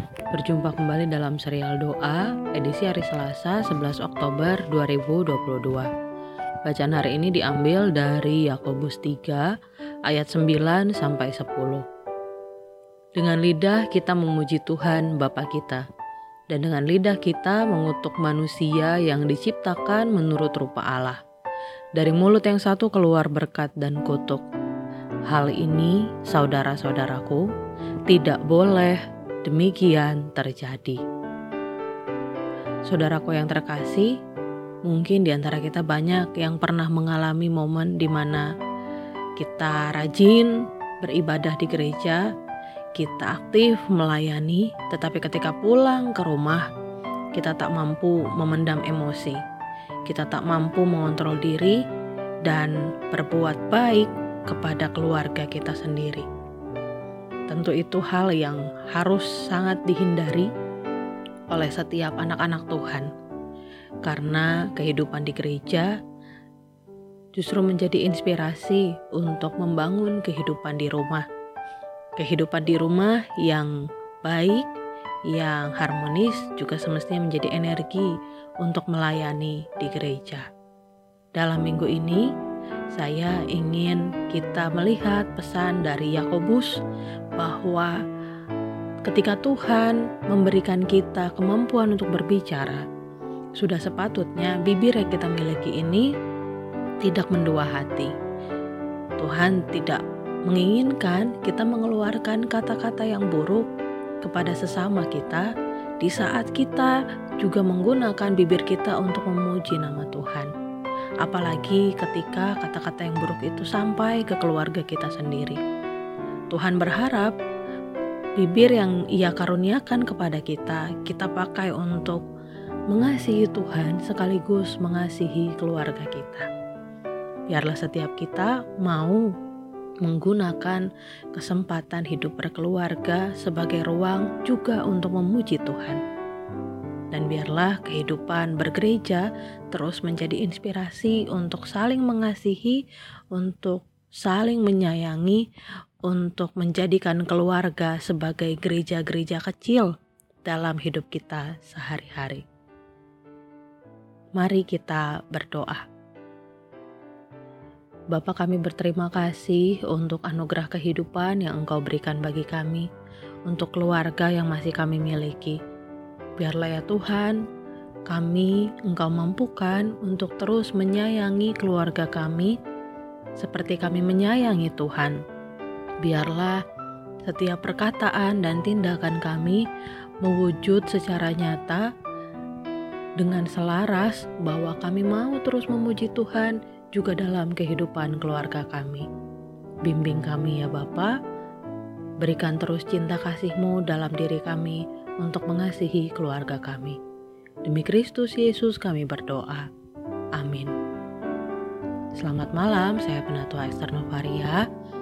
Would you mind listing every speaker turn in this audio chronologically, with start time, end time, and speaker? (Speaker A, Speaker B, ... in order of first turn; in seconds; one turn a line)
Speaker A: 0.3-5.9
Speaker A: 6.7-9.5
Speaker A: 10.1-11.8
Speaker A: 13.2-15.8
Speaker A: 16.5-21.2
Speaker A: 22.0-24.4
Speaker A: 25.3-27.5
Speaker A: 28.1-31.0
Speaker A: 32.9-34.1
Speaker A: 34.9-38.5
Speaker A: 39.4-42.2
Speaker A: 43.0-46.7
Speaker A: 47.4-49.4
Speaker A: 50.1-51.8
Speaker A: 52.5-56.3
Speaker A: 57.5-60.5
Speaker A: 61.5-63.1
Speaker A: 64.0-65.9
Speaker A: 67.4-71.3
Speaker A: 72.2-73.7
Speaker A: 74.2-74.7
Speaker A: 75.3-78.1
Speaker A: 78.6-80.5
Speaker A: 81.4-82.3
Speaker A: 82.9-86.8
Speaker A: 87.4-87.9
Speaker A: 89.1-92.8
Speaker A: 93.6-96.1
Speaker A: 97.0-98.1
Speaker A: 99.2-103.7
Speaker A: 104.2-105.5
Speaker A: 106.0-110.5
Speaker A: 111.2-115.6
Speaker A: 116.5-117.3
Speaker A: 118.4-122.2
Speaker A: 122.9-126.5
Speaker A: 127.5-129.2
Speaker A: 130.1-136.0
Speaker A: 137.1-142.8
Speaker A: 143.3-145.4
Speaker A: 146.1-149.9
Speaker A: 150.5-152.4
Speaker A: 154.4-155.8
Speaker A: 158.1-162.9
Speaker A: 163.5-165.6
Speaker A: 166.4-167.4
Speaker A: 168.1-172.6
Speaker A: 173.4-175.2
Speaker A: 176.0-176.6
Speaker A: 177.2-179.6
Speaker A: 180.2-181.8
Speaker A: 183.2-189.1
Speaker A: 189.8-191.2
Speaker A: 192.2-197.0
Speaker A: 197.7-199.7
Speaker A: 200.4-200.7
Speaker A: 202.2-204.7